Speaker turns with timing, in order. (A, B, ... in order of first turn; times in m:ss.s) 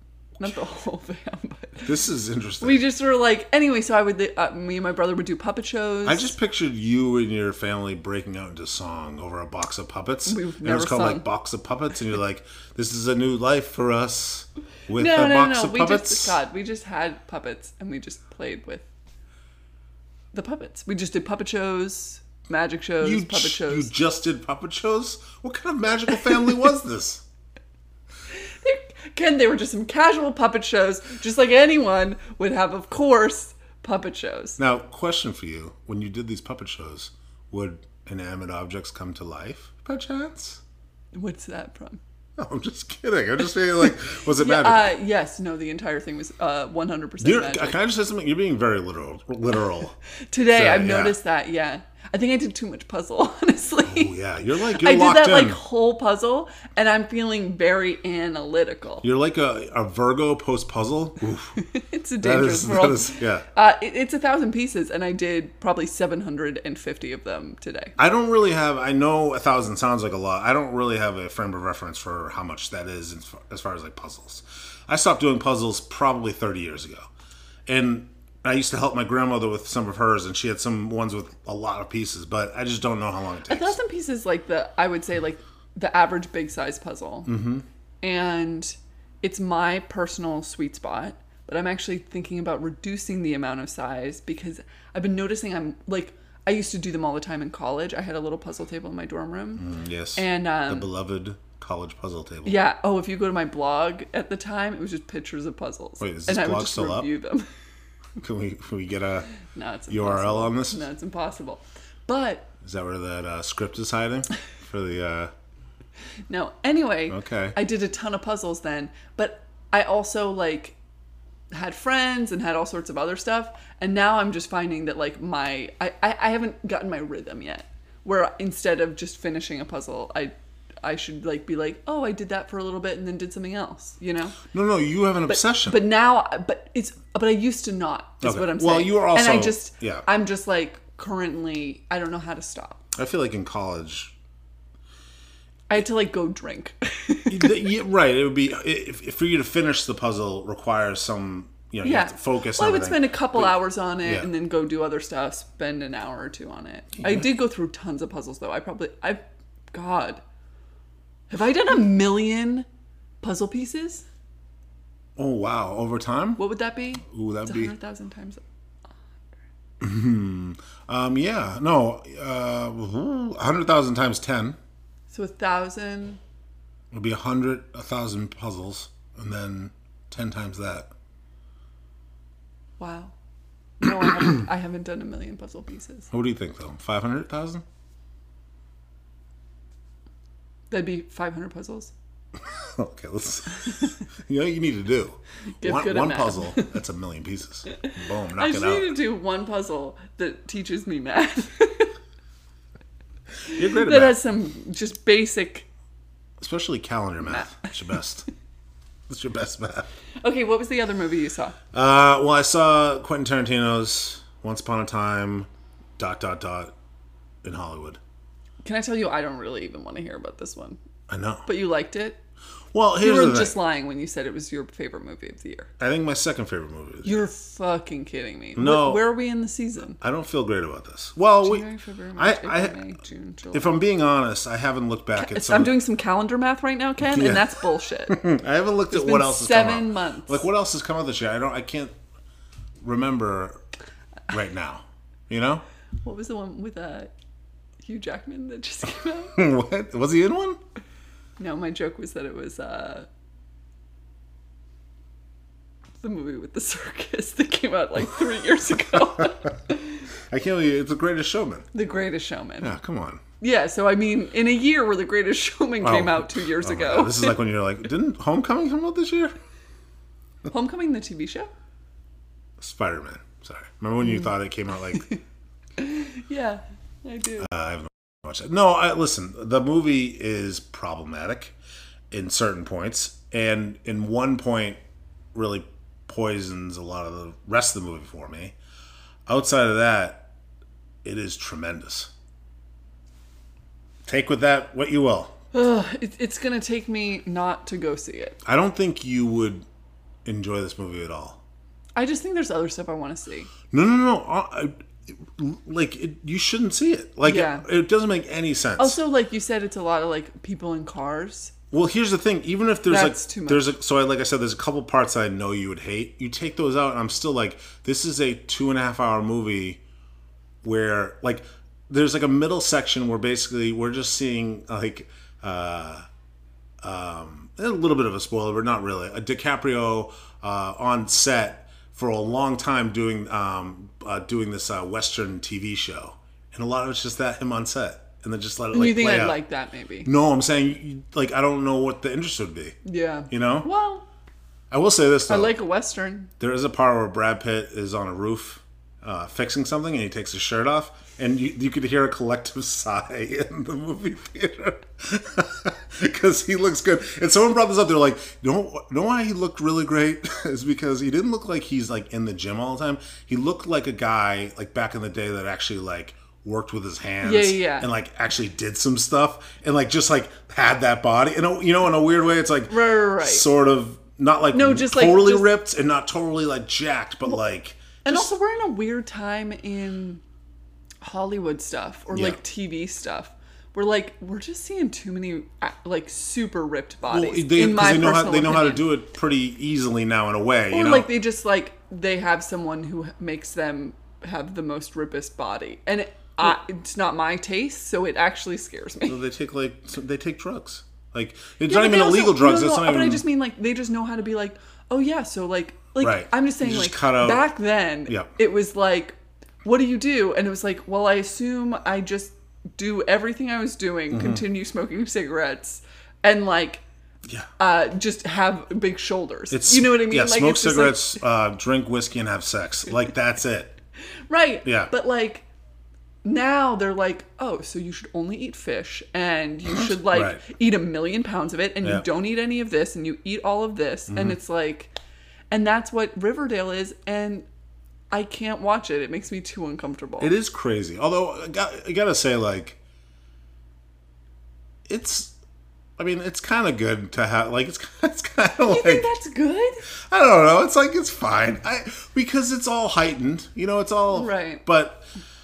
0:00.4-0:02.0 A
0:01.8-0:02.8 B
0:02.6-0:06.3 A
0:06.0-0:16.4 B
0:10.3-0:11.3 A
0:14.9-0:18.9 A
0:20.3-0:23.9 A
0:23.0-0:27.2 B
0:28.6-0:34.6 A
0:34.6-0:40.6 B
0:41.1-0:42.0 A
0:42.4-0:45.0 B
0:44.4-0:47.8 A
0:47.2-0:50.0 B
0:50.3-0:54.2 A
0:50.5-0:51.2 B
0:53.8-0:55.6 B
0:54.8-0:59.0 A
0:59.0-1:01.6 B
1:01.6-1:08.0 A
1:02.2-1:03.5 B
1:08.0-1:17.1 B
1:17.7-1:23.8 B
1:23.5-1:27.3 A
1:27.2-1:27.6 B
1:28.0-1:40.9 A
1:39.6-1:42.6 B
1:42.4-1:47.5 A
1:46.0-1:47.1 B
1:48.2-1:49.3 B
1:49.4-1:52.5 A
1:49.9-1:50.8 B
1:52.6-1:55.3 B
1:56.3-2:00.8 A
1:57.1-1:57.6 B
2:01.5-2:14.4 A
2:14.5-2:15.8 B
2:15.3-2:22.8 A
2:18.2-2:20.0 B
2:22.9-2:24.1 B
2:25.7-2:27.6 A
2:27.3-2:34.3 B
2:31.8-2:40.2 A
2:37.0-2:37.3 B
2:41.3-2:42.7 A
2:43.2-2:44.1 A
2:45.2-2:46.4 B
2:46.4-2:48.4 A
2:47.0-2:47.7 B
2:49.8-2:54.6 B
2:55.1-2:56.2 A
2:56.9-3:00.9 B
3:02.8-3:03.1 A
3:03.8-3:06.1 A
3:06.1-3:07.6 B
3:10.7-3:11.9 A
3:12.5-3:19.0 B
3:15.6-3:16.7 A
3:17.7-3:21.9 A
3:23.5-3:25.7 A
3:23.5-3:24.2 B
3:26.4-3:28.3 B
3:27.3-3:27.6 A
3:29.1-3:29.9 B
3:30.2-3:31.6 A
3:31.7-3:36.7 B
3:37.4-3:38.0 B
3:38.6-3:40.8 A
3:41.1-3:41.5 B
3:41.5-3:42.2 A
3:42.7-3:43.6 B
3:43.0-3:45.7 A
3:45.8-3:47.2 B
3:47.0-3:50.0 A
3:48.6-3:49.1 B
3:50.0-3:51.6 B
3:51.4-3:53.8 A
3:52.2-3:52.8 B
3:53.5-3:55.8 B
3:55.2-3:58.2 A
3:57.0-4:02.0 B
3:58.9-4:00.4 A
4:02.8-4:03.6 B
4:04.3-4:05.6 B
4:06.0-4:07.1 A
4:07.8-4:09.4 A
4:09.4-4:10.6 B
4:11.4-4:13.1 A
4:16.0-4:20.0 A
4:20.3-4:21.7 B
4:21.7-4:22.8 A
4:22.6-4:23.2 B
4:23.4-4:27.4 A
4:25.8-4:29.3 B
4:30.5-4:31.5 A
4:32.6-4:35.1 B
4:35.8-4:37.5 A
4:37.4-4:41.6 B
4:42.1-4:44.8 B
4:45.3-4:48.6 B
4:49.3-4:50.3 B
4:51.0-4:52.1 B
4:54.1-4:55.4 B
4:55.5-4:58.4 A
4:58.4-4:59.6 B
5:00.2-5:01.4 B
5:02.0-5:03.5 A
5:03.7-5:09.0 B
5:07.2-5:07.6 A
5:08.8-5:11.5 A
5:11.7-5:19.8 B
5:12.9-5:13.6 A
5:20.6-5:26.0 B
5:26.8-5:39.4 B
5:38.7-5:40.1 A
5:40.0-5:42.8 B
5:42.8-5:44.1 A
5:43.3-5:43.7 B
5:44.7-5:45.6 B
5:45.3-5:46.3 A
5:46.4-6:18.3 B
6:07.2-6:07.9 A
6:12.7-6:13.5 A
6:14.5-6:15.5 A
6:18.0-6:20.2 A
6:21.0-6:28.9 A
6:22.1-6:22.4 B
6:27.1-6:31.1 B
6:30.7-6:39.2 A
6:39.1-6:43.2 B
6:41.6-6:56.8 A
6:46.0-6:47.5 B
6:54.1-6:54.4 B
6:57.6-7:01.2 A
6:59.5-7:03.8 B
7:04.3-7:05.4 A
7:04.6-7:04.9 B
7:06.2-7:14.9 A
7:09.8-7:10.4 B
7:14.1-7:14.4 B
7:15.5-7:17.5 A
7:18.1-7:20.4 A
7:20.2-7:22.8 B
7:24.9-7:25.4 B
7:26.0-7:29.1 B
7:28.6-7:29.8 A
7:30.1-7:35.1 B
7:34.1-7:34.6 A